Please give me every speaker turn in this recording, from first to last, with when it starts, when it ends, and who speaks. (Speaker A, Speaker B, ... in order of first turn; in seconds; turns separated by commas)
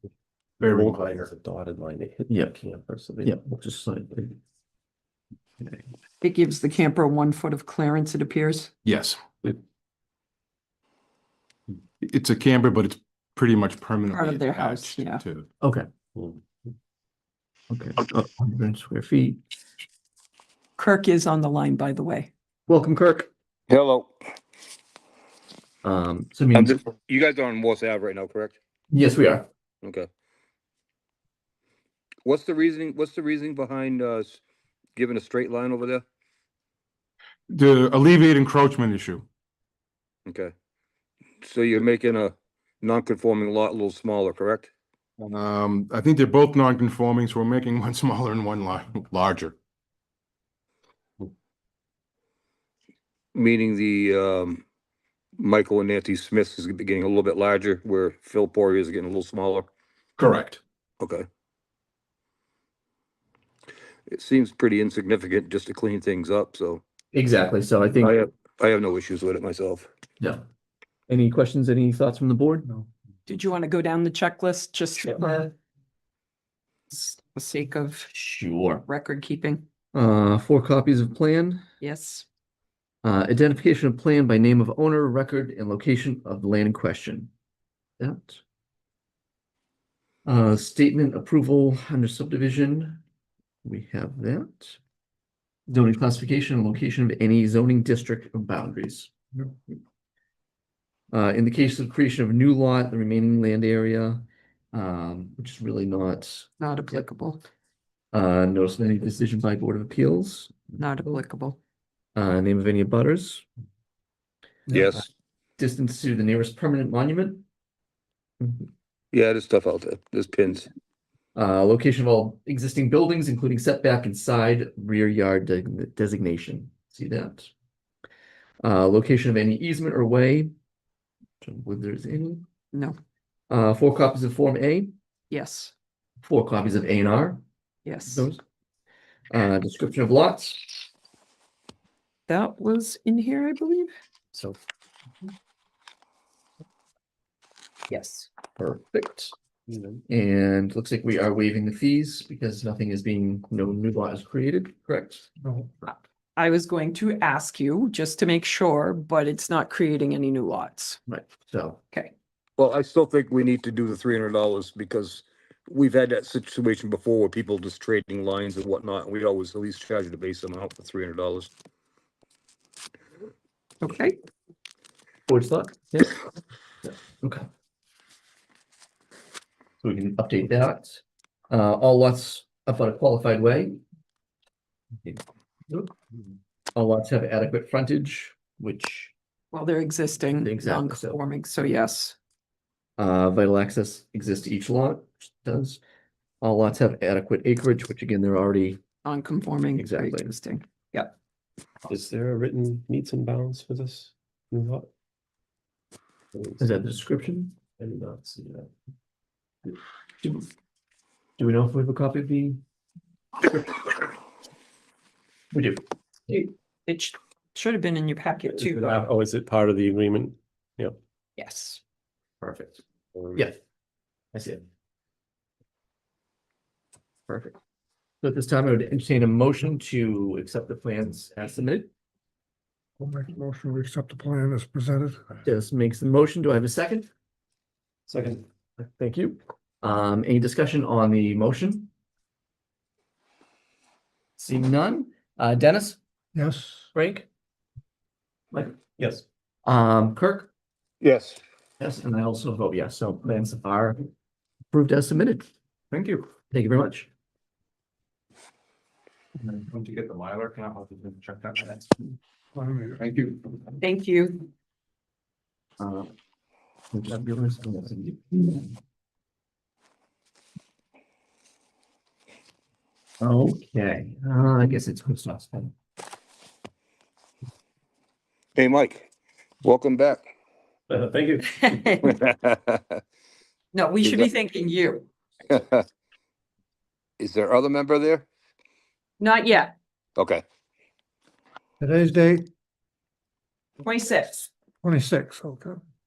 Speaker A: 0.6-3.3, Speaker B: 0.6-1.2, Speaker C: 2.3-2.6, Speaker C: 3.2-4.4, Speaker D: 6.2-8.7, Speaker B: 8.9-9.2, Speaker B: 12.0-15.5, Speaker D: 14.1-15.2, Speaker C: 15.6-15.9, Speaker C: 17.7-19.4, Speaker D: 20.8-22.3, Speaker C: 22.7-23.3, Speaker E: 23.7-24.1, Speaker C: 25.8-26.8, Speaker E: 26.5-28.6, Speaker C: 28.9-29.5, Speaker E: 29.8-30.1, Speaker E: 32.2-34.4, Speaker E: 35.0-36.0, Speaker B: 37.5-39.2, Speaker E: 40.3-40.5, Speaker E: 41.4-44.7, Speaker B: 45.2-49.5, Speaker E: 53.4-54.6, Speaker E: 55.4-59.7, Speaker B: 60.2-60.6, Speaker E: 64.1-66.8, Speaker C: 67.1-68.2, Speaker E: 68.0-69.9, Speaker C: 71.1-72.7, Speaker D: 73.3-75.5, Speaker D: 76.9-78.1, Speaker C: 78.1-78.8, Speaker D: 78.8-79.7, Speaker C: 79.9-81.6, Speaker D: 81.8-82.3, Speaker C: 83.0-87.3, Speaker C: 88.0-88.4, Speaker C: 90.3-93.0, Speaker C: 93.6-94.8, Speaker C: 95.7-99.8, Speaker C: 101.1-107.0, Speaker D: 106.6-107.4, Speaker C: 108.1-111.2, Speaker D: 110.8-111.6, Speaker C: 112.2-113.5, Speaker C: 114.7-117.4, Speaker E: 114.7-115.1, Speaker E: 119.1-120.7, Speaker C: 121.3-127.5, Speaker C: 128.6-130.5, Speaker C: 131.4-132.5, Speaker C: 133.5-134.9, Speaker D: 135.3-135.7, Speaker C: 136.2-137.4, Speaker D: 137.8-138.3, Speaker C: 138.1-138.4, Speaker C: 139.3-140.7, Speaker D: 142.3-143.9, Speaker D: 147.9-148.3, Speaker C: 148.6-149.4, Speaker A: 149.7-150.0, Speaker C: 150.1-155.3, Speaker D: 155.8-161.0, Speaker C: 161.1-161.8, Speaker E: 162.6-171.5, Speaker D: 173.8-174.2, Speaker C: 175.3-176.1, Speaker C: 176.8-177.4, Speaker C: 179.8-183.8, Speaker C: 185.0-185.9, Speaker C: 186.8-189.1, Speaker D: 189.5-192.2, Speaker C: 190.4-191.2, Speaker C: 193.0-195.8, Speaker C: 196.4-198.8, Speaker D: 199.0-201.1, Speaker C: 199.8-200.3, Speaker A: 201.9-204.9, Speaker C: 206.6-207.6, Speaker A: 207.8-208.7, Speaker C: 211.4-212.6, Speaker C: 213.4-214.1, Speaker C: 215.5-215.8, Speaker D: 216.3-219.0, Speaker A: 218.6-221.0, Speaker D: 221.4-221.8, Speaker C: 222.4-222.8, Speaker C: 227.3-227.6, Speaker C: 228.2-231.9, Speaker F: 233.0-235.3, Speaker C: 235.4-237.1, Speaker A: 238.1-238.4, Speaker C: 238.8-241.9, Speaker C: 244.4-246.0, Speaker F: 246.4-246.9, Speaker C: 246.9-247.3, Speaker A: 249.0-249.2, Speaker C: 249.7-250.5, Speaker E: 251.0-251.4, Speaker C: 251.8-254.0, Speaker C: 254.7-255.5, Speaker G: 255.9-256.2, Speaker C: 256.5-257.1, Speaker G: 259.5-261.9, Speaker F: 261.3-261.6, Speaker F: 262.6-263.3, Speaker G: 262.6-263.6, Speaker D: 263.8-264.5, Speaker C: 265.8-266.1, Speaker C: 266.9-268.7, Speaker C: 273.2-275.7, Speaker E: 278.6-279.1, Speaker E: 279.6-280.3, Speaker A: 280.9-281.8, Speaker D: 281.7-281.9, Speaker E: 282.0-283.0, Speaker D: 283.7-285.1, Speaker E: 285.5-285.8, Speaker E: 287.2-288.3, Speaker D: 289.2-289.7, Speaker E: 290.2-290.4, Speaker F: 291.8-292.5, Speaker D: 293.8-294.5, Speaker F: 294.8-295.8